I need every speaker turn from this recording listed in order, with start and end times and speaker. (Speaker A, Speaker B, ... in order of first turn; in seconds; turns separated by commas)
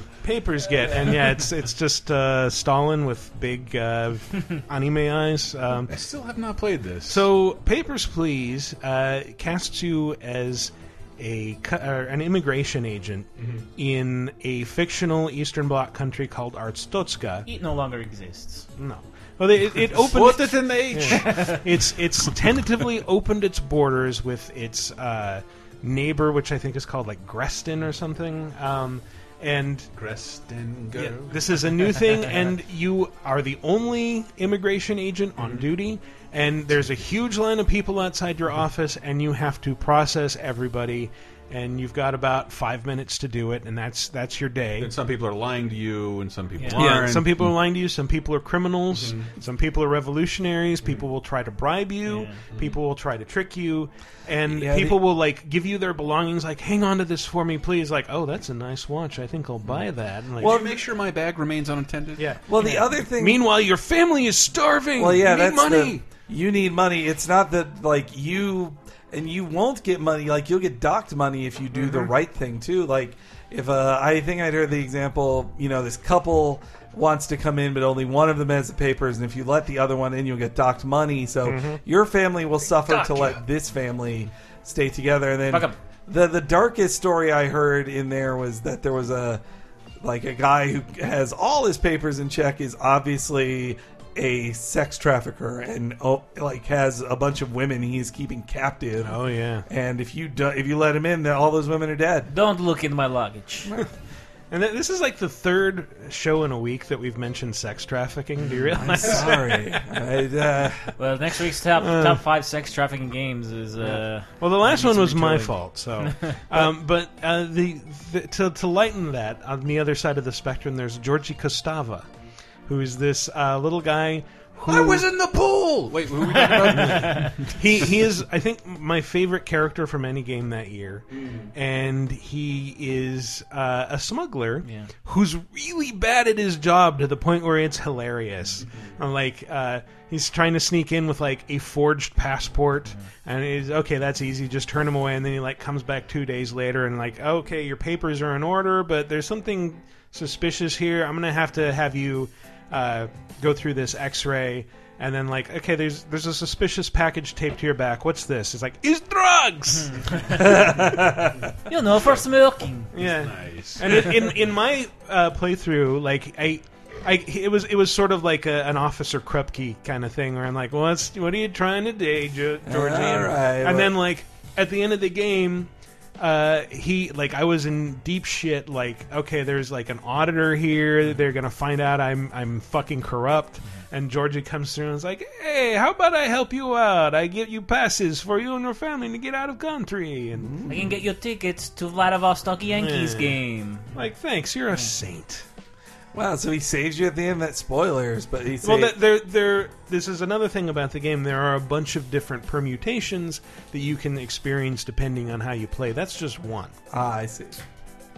Speaker A: 0.2-6.0, Speaker B: 5.9-7.3, Speaker A: 7.1-17.5, Speaker B: 13.4-13.6, Speaker C: 17.5-18.7, Speaker A: 18.8-29.9, Speaker B: 19.9-21.7, Speaker C: 21.1-21.6, Speaker B: 30.0-32.3, Speaker A: 30.9-44.9, Speaker B: 35.4-35.6, Speaker B: 44.8-47.5, Speaker C: 46.6-46.9, Speaker A: 46.8-60.6, Speaker B: 48.9-49.3, Speaker C: 52.1-52.4, Speaker D: 54.5-55.0, Speaker B: 60.4-62.3, Speaker A: 62.2-66.0, Speaker D: 62.5-63.4, Speaker D: 65.0-89.4, Speaker A: 71.7-72.1, Speaker A: 81.5-81.8, Speaker C: 82.9-83.4, Speaker C: 85.5-85.8, Speaker D: 90.0-102.3, Speaker A: 99.0-99.7, Speaker C: 102.3-103.7, Speaker A: 104.5-109.6, Speaker B: 108.4-109.2, Speaker D: 108.8-111.0, Speaker C: 111.0-116.4, Speaker A: 111.8-112.2, Speaker A: 113.8-122.1, Speaker A: 122.7-125.0, Speaker B: 124.7-127.5, Speaker C: 126.3-127.3, Speaker A: 126.8-160.1, Speaker B: 131.1-131.5, Speaker C: 134.6-134.9, Speaker B: 138.6-138.9, Speaker C: 159.8-160.6, Speaker D: 160.4-161.5, Speaker C: 161.7-162.9, Speaker A: 162.9-190.5, Speaker B: 163.0-164.1, Speaker D: 172.7-173.9, Speaker D: 190.4-190.9, Speaker C: 190.7-193.9, Speaker A: 192.8-193.4, Speaker A: 193.9-195.4, Speaker D: 196.1-199.0, Speaker A: 198.6-206.7, Speaker D: 206.9-207.6